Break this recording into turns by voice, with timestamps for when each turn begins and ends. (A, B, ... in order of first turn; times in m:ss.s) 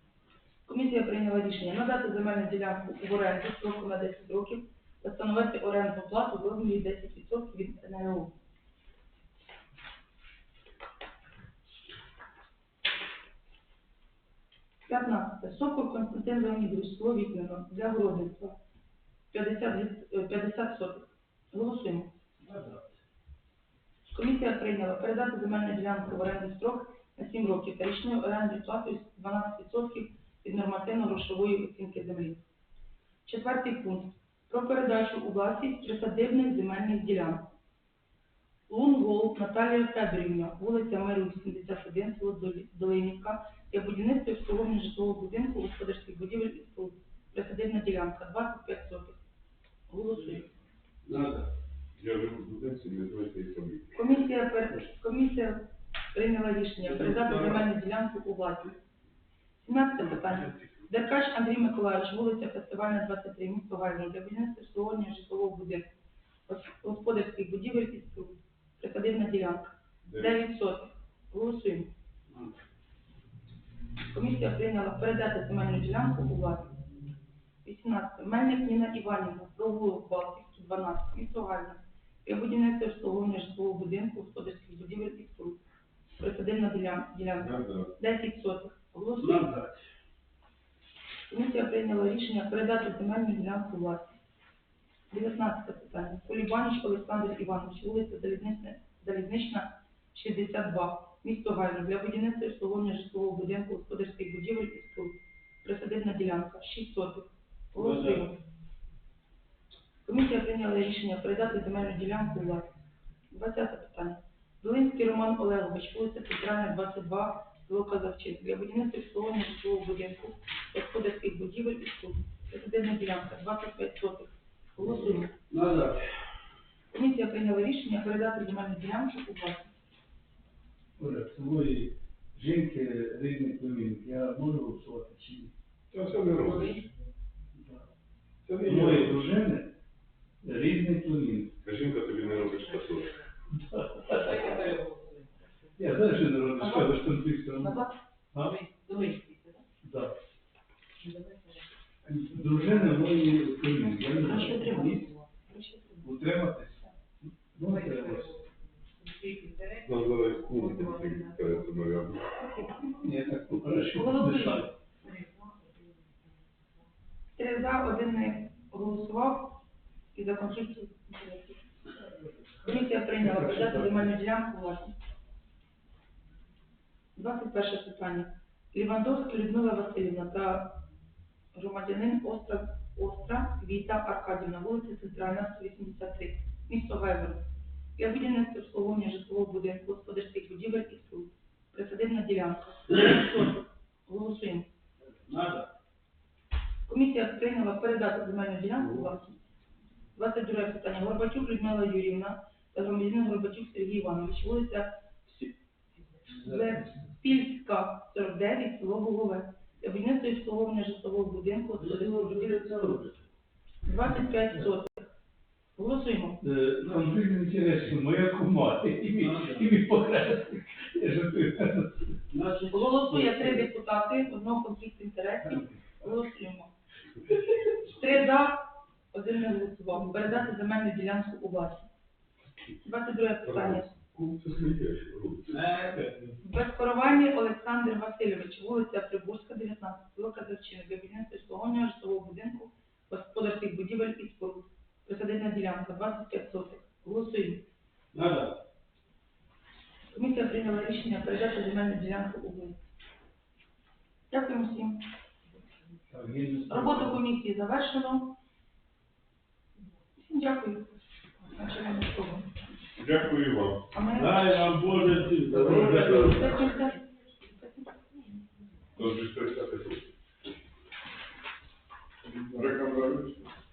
0:00.7-0:08.3 A
0:14.9-0:18.6 A
0:19.3-0:22.1 A
0:22.4-0:22.9 B
0:24.1-0:32.4 A
0:33.3-0:37.5 A
0:38.7-0:49.2 A
0:49.9-0:50.5 A
0:51.0-0:51.5 B
0:52.0-0:53.9 C
0:53.9-0:58.8 A
0:56.8-0:57.7 B
0:59.6-1:05.9 A
1:06.5-1:11.9 A
1:10.0-1:10.4 C
1:14.1-1:16.7 A
1:17.6-1:25.6 A
1:26.2-1:29.5 A
1:27.4-1:27.9 C
1:29.2-1:29.8 B
1:31.3-1:34.2 A
1:35.1-1:48.4 A
1:47.7-1:48.3 B
1:50.0-1:52.7 A
1:53.3-2:05.3 A
2:05.5-2:06.0 B
2:06.9-2:09.7 A
2:11.0-2:15.5 D
2:15.9-2:16.8 C
2:16.6-2:16.8 E
2:18.4-2:19.4 C
2:18.6-2:19.8 D
2:20.4-2:21.6 D
2:21.6-2:23.1 C
2:22.2-2:23.3 E
2:23.6-2:24.4 D
2:24.0-2:25.8 E
2:25.8-2:28.6 D
2:26.6-2:28.0 A
2:28.3-2:29.6 E
2:29.8-2:30.2 D
2:31.0-2:31.7 E
2:32.0-2:35.1 D
2:32.2-2:32.8 E
2:34.2-2:36.1 A
2:34.6-2:35.2 E
2:36.0-2:38.4 D
2:37.6-2:41.8 E
2:39.8-2:42.6 C
2:43.0-2:44.7 D
2:43.9-2:44.7 A
2:45.0-2:46.3 E
2:47.4-2:49.6 A
2:50.1-2:51.6 A
2:52.6-2:55.0 A
2:52.6-2:54.1 D
2:57.2-3:00.8 A
3:01.5-3:07.4 A
3:08.0-3:14.7 A
3:15.2-3:15.7 B
3:16.9-3:19.3 A
3:20.2-3:25.5 A
3:26.2-3:33.0 A
3:31.8-3:33.2 B
3:33.8-3:35.1 A
3:34.1-3:34.6 D
3:35.8-3:36.4 A
3:36.4-3:42.1 D
3:39.2-3:39.7 B
3:42.3-3:43.5 B
3:42.7-3:46.7 A
3:47.3-3:51.9 A
3:52.8-3:53.9 A
3:53.4-3:55.6 C
3:55.5-3:56.4 B
3:56.4-4:07.6 A
4:08.1-4:08.6 B
4:10.1-4:12.8 A
4:14.3-4:15.1 A
4:16.1-4:17.2 D
4:16.7-4:18.4 A
4:20.2-4:22.6 A
4:23.0-4:23.9 C
4:23.9-4:24.7 A
4:24.1-4:26.6 B
4:25.5-4:28.3 A
4:25.6-4:26.4 C
4:29.0-4:30.1 C
4:32.4-4:33.5 C